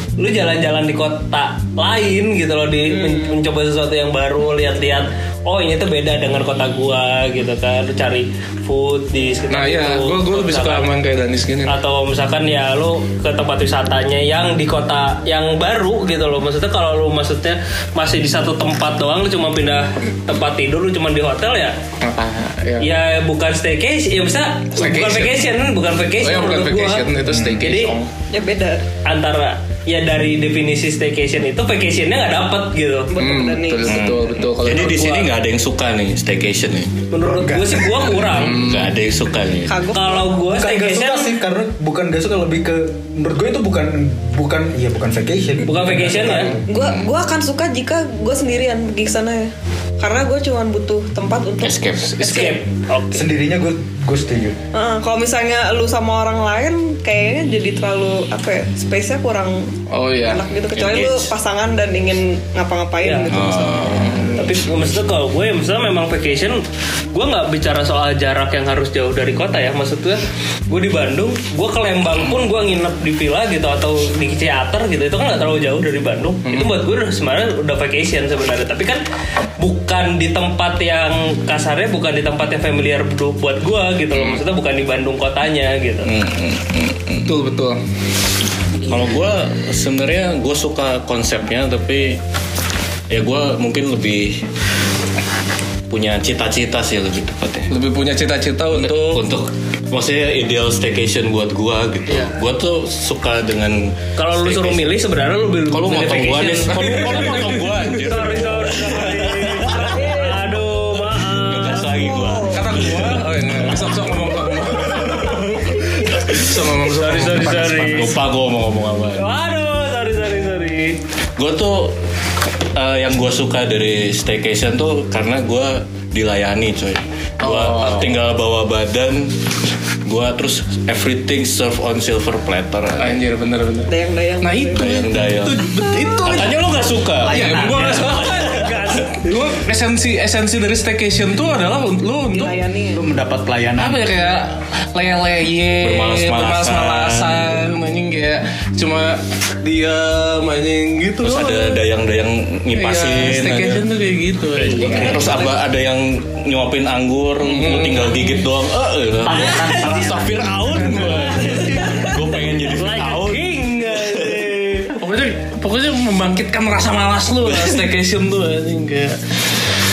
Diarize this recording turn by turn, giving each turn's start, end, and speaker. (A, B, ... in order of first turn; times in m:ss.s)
0:00.2-0:10.9 A
0:02.9-0:03.3 B
0:09.5-0:11.8 C
0:11.7-0:21.8 A
0:22.0-0:22.9 C
0:22.8-0:27.1 A
0:24.8-0:25.4 C
0:26.2-0:28.1 C
0:27.2-0:27.6 D
0:27.6-0:28.0 A
0:28.3-0:28.8 B
0:29.0-0:33.1 A
0:33.1-0:34.0 B
0:33.2-0:35.3 C
0:33.8-0:37.0 E
0:37.1-0:38.6 A
0:37.2-0:38.2 D
0:38.2-0:39.0 C
0:38.5-0:39.8 E
0:39.6-0:40.3 B
0:39.9-0:41.3 A
0:40.5-0:46.6 D
0:45.6-0:46.5 A
0:46.7-0:52.6 B
0:46.7-0:47.1 E
0:51.6-0:52.2 E
0:52.2-0:53.3 A
0:53.1-0:54.6 D
0:54.7-1:03.9 B
0:59.9-1:00.4 C
1:00.7-1:01.3 E
1:03.0-1:03.3 A
1:03.3-1:04.4 E
1:03.8-1:04.4 D
1:04.0-1:04.3 C
1:04.4-1:06.6 A
1:07.1-1:19.0 A
1:16.4-1:16.7 C
1:19.6-1:26.1 A
1:24.1-1:24.4 E
1:26.0-1:27.4 E
1:27.2-1:27.8 C
1:28.8-1:32.2 E
1:33.1-1:34.4 E
1:35.9-1:37.7 E
1:37.7-1:39.2 C
1:38.7-1:44.9 E
1:42.1-1:42.3 A
1:44.2-1:51.9 A
1:45.7-1:50.0 E
1:46.6-1:48.0 C
1:49.9-1:50.6 B
1:51.3-1:53.8 E
1:51.9-1:52.8 B
1:52.5-1:57.8 C
1:55.8-1:56.1 B
1:56.9-1:58.1 A
1:57.0-1:58.2 D
1:57.8-1:59.2 E
1:59.2-2:01.0 A
2:01.4-2:02.0 E
2:02.7-2:09.3 E
2:07.4-2:08.2 C
2:10.0-2:13.2 E
2:13.0-2:16.6 C
2:13.9-2:15.0 B
2:14.8-2:18.9 E
2:17.2-2:18.2 D
2:17.3-2:22.6 C
2:18.0-2:19.4 A
2:22.3-2:23.0 B
2:22.9-2:24.1 D
2:23.8-2:31.8 C
2:25.8-2:27.5 E
2:31.2-2:33.8 E
2:32.7-2:35.5 C
2:34.6-2:35.2 A
2:34.7-2:44.5 E
2:37.4-2:38.4 C
2:39.2-2:40.2 D
2:39.3-2:39.8 A
2:40.7-2:41.6 C
2:42.7-2:44.9 A
2:45.0-2:49.2 C